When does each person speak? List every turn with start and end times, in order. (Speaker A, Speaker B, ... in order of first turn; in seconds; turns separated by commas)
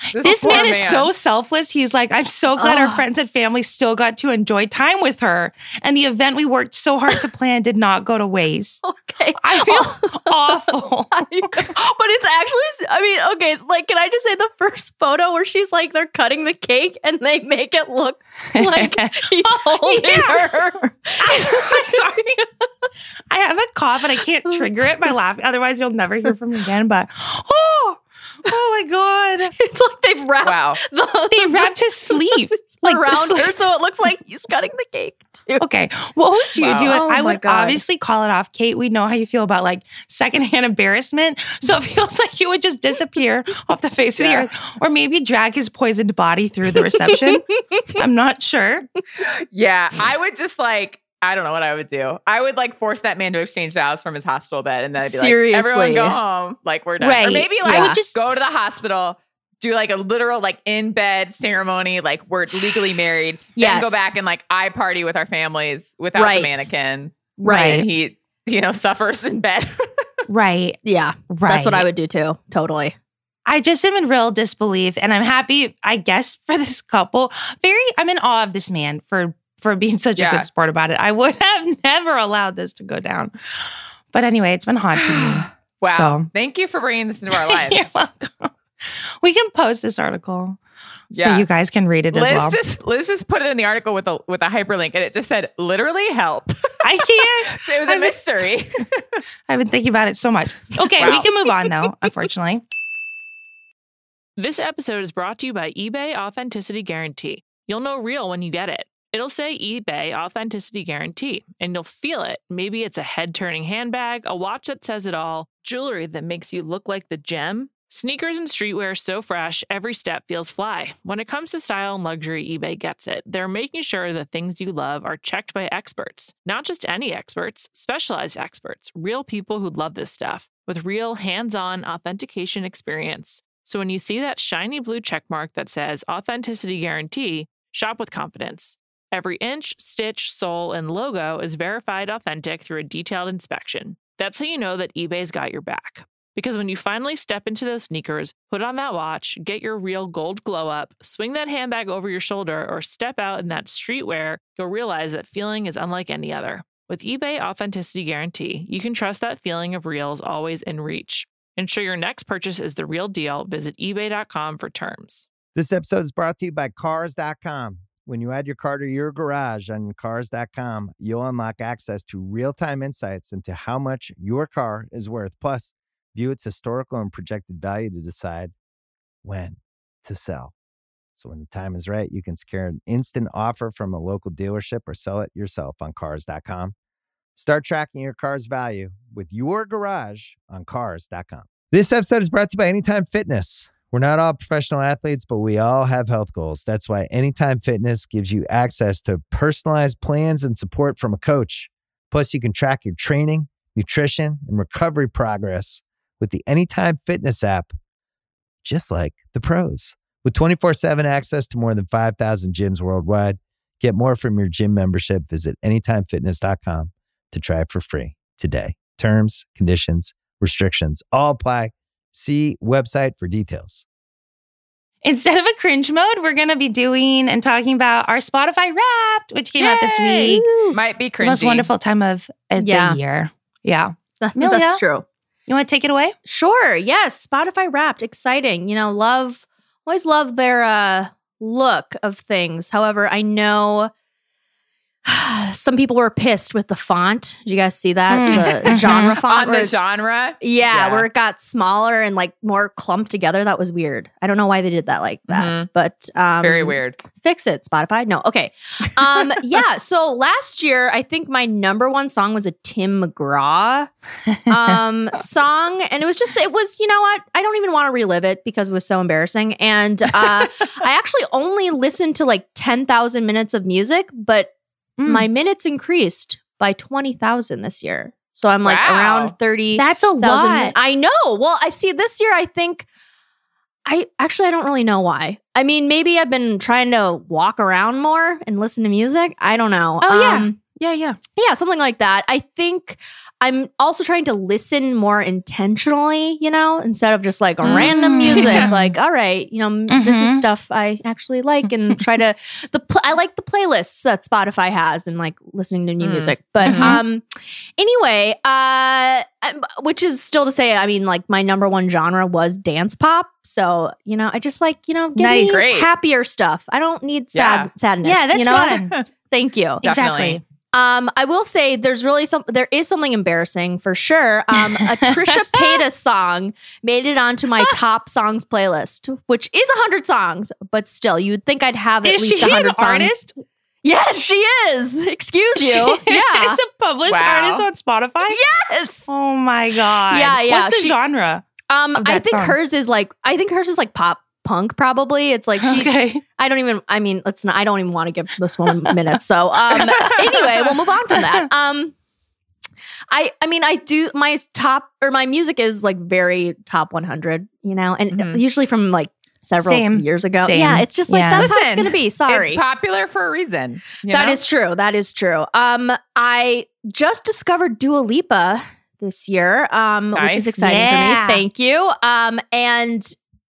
Speaker A: 0.1-1.1, Speaker B: 0.1-8.8, Speaker C: 0.2-0.8, Speaker C: 2.6-3.0, Speaker C: 8.8-22.8, Speaker B: 9.4-11.7, Speaker B: 18.6-20.5, Speaker B: 21.2-22.3, Speaker B: 23.3-29.5, Speaker C: 24.5-24.9, Speaker C: 29.4-35.6, Speaker A: 30.4-30.8, Speaker B: 31.3-33.5, Speaker B: 35.6-48.9, Speaker A: 36.6-37.0, Speaker C: 36.9-37.8, Speaker A: 44.2-44.5, Speaker C: 47.2-47.9, Speaker A: 49.5-70.2, Speaker C: 55.0-56.2, Speaker B: 57.0-58.2, Speaker C: 57.6-58.0, Speaker C: 63.6-64.1, Speaker C: 66.2-66.7, Speaker B: 67.4-67.9, Speaker C: 67.4-67.8, Speaker B: 70.3-70.8, Speaker C: 70.8-73.0, Speaker B: 71.3-71.9, Speaker B: 73.5-83.4, Speaker A: 80.2-80.5, Speaker B: 84.1-86.3, Speaker A: 85.0-88.0, Speaker B: 87.3-88.5, Speaker B: 89.2-90.6, Speaker B: 91.1-92.6, Speaker A: 91.1-91.5, Speaker A: 92.1-99.2, Speaker B: 96.8-98.2, Speaker B: 99.5-102.6, Speaker A: 101.0-101.7, Speaker D: 104.4-165.2, Speaker E: 165.6-178.5, Speaker E: 179.2-180.5, Speaker E: 181.2-186.7, Speaker E: 187.4-207.7, Speaker E: 208.6-223.8, Speaker B: 225.0-230.6, Speaker A: 229.6-231.7, Speaker C: 230.2-230.8, Speaker B: 231.2-234.8, Speaker C: 232.6-233.0, Speaker C: 234.2-235.1, Speaker B: 235.5-236.2, Speaker C: 236.2-243.9, Speaker C: 245.1-249.7, Speaker B: 248.1-249.2, Speaker A: 248.7-251.1, Speaker C: 250.4-263.9, Speaker A: 255.3-255.7, Speaker A: 256.4-257.0, Speaker C: 264.5-274.5, Speaker B: 275.0-275.3, Speaker C: 275.1-282.9, Speaker A: 278.6-279.3, Speaker B: 279.8-280.8, Speaker C: 283.9-290.6, Speaker B: 290.0-291.2, Speaker C: 291.4-307.2, Speaker A: 297.6-298.7, Speaker B: 297.7-298.9, Speaker B: 299.9-300.5, Speaker A: 306.0-307.0, Speaker B: 306.6-307.0, Speaker C: 307.8-319.8, Speaker B: 315.2-315.7, Speaker A: 315.5-315.9, Speaker A: 317.4-317.7, Speaker B: 318.0-318.9, Speaker B: 319.8-320.4, Speaker A: 319.8-320.4, Speaker C: 320.7-333.2, Speaker B: 332.0-333.4, Speaker C: 333.8-336.6, Speaker B: 335.6-338.4, Speaker A: 337.1-337.7, Speaker C: 338.2-339.1, Speaker B: 339.1-342.6, Speaker C: 340.1-341.0, Speaker C: 341.7-351.9, Speaker B: 345.6-346.2, Speaker C: 353.1-362.6, Speaker A: 358.1-358.4, Speaker B: 359.6-361.5, Speaker A: 361.4-364.4, Speaker C: 364.1-373.1, Speaker A: 370.1-370.5, Speaker B: 370.6-371.4